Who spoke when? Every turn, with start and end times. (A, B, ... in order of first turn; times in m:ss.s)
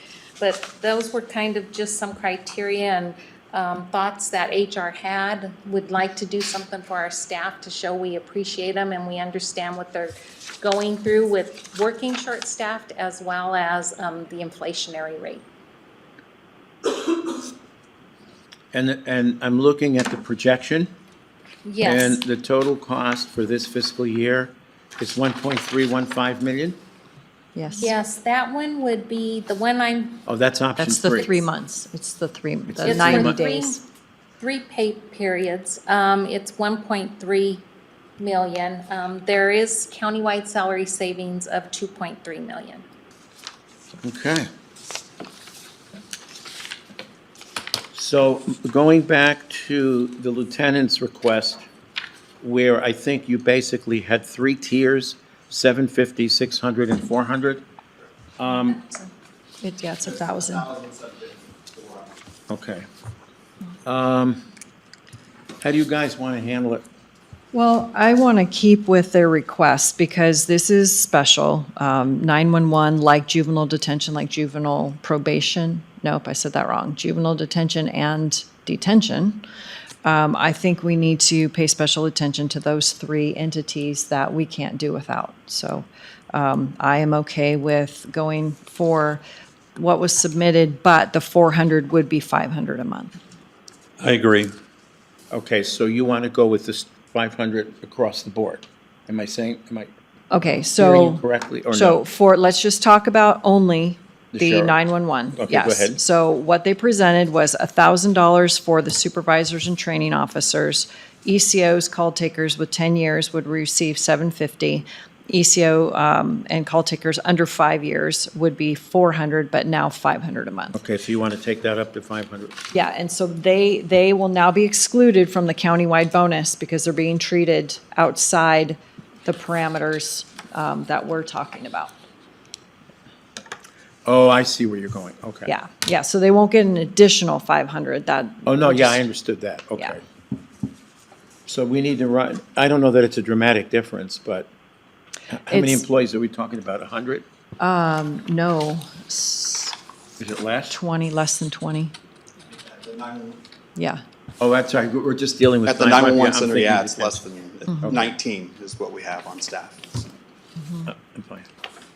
0:00.4-0:15.4 A
0:18.7-0:20.9 B
0:21.6-0:22.2 A
0:21.8-0:26.8 B
0:27.5-0:27.9 C
0:27.8-0:30.2 A
0:30.2-0:31.3 B
0:30.8-0:33.8 C
0:32.7-0:33.4 B
0:32.8-0:33.8 A
0:34.4-0:37.6 A
0:38.2-0:42.8 A
0:44.0-0:44.5 B
0:47.9-0:51.6 B
0:52.4-0:57.6 B
0:58.4-0:58.8 B
0:58.5-0:59.1 A
0:59.6-1:00.7 C
1:00.4-1:02.1 D
1:02.5-1:02.8 B
1:03.8-1:04.4 B
1:05.6-1:06.8 B
1:07.5-1:19.4 C
1:20.0-1:29.2 C
1:29.8-1:33.2 C
1:35.3-1:39.9 B
1:40.3-2:00.8 C
1:40.8-1:42.0 B
1:44.3-1:44.8 B
1:45.3-1:46.0 B
2:00.7-2:02.6 B
2:02.7-2:11.9 C
2:14.0-2:15.5 B
2:15.4-2:19.0 C
2:18.4-2:20.0 B
2:21.5-2:24.5 B
2:25.3-2:27.2 B
2:25.5-2:25.8 C
2:27.6-2:29.7 C
2:30.2-2:30.8 B
2:30.7-2:31.9 C
2:32.7-2:33.4 D
2:33.8-2:34.0 C
2:34.4-2:37.2 B
2:35.6-2:39.9 D
2:40.6-2:40.9 C
2:40.8-2:41.5 B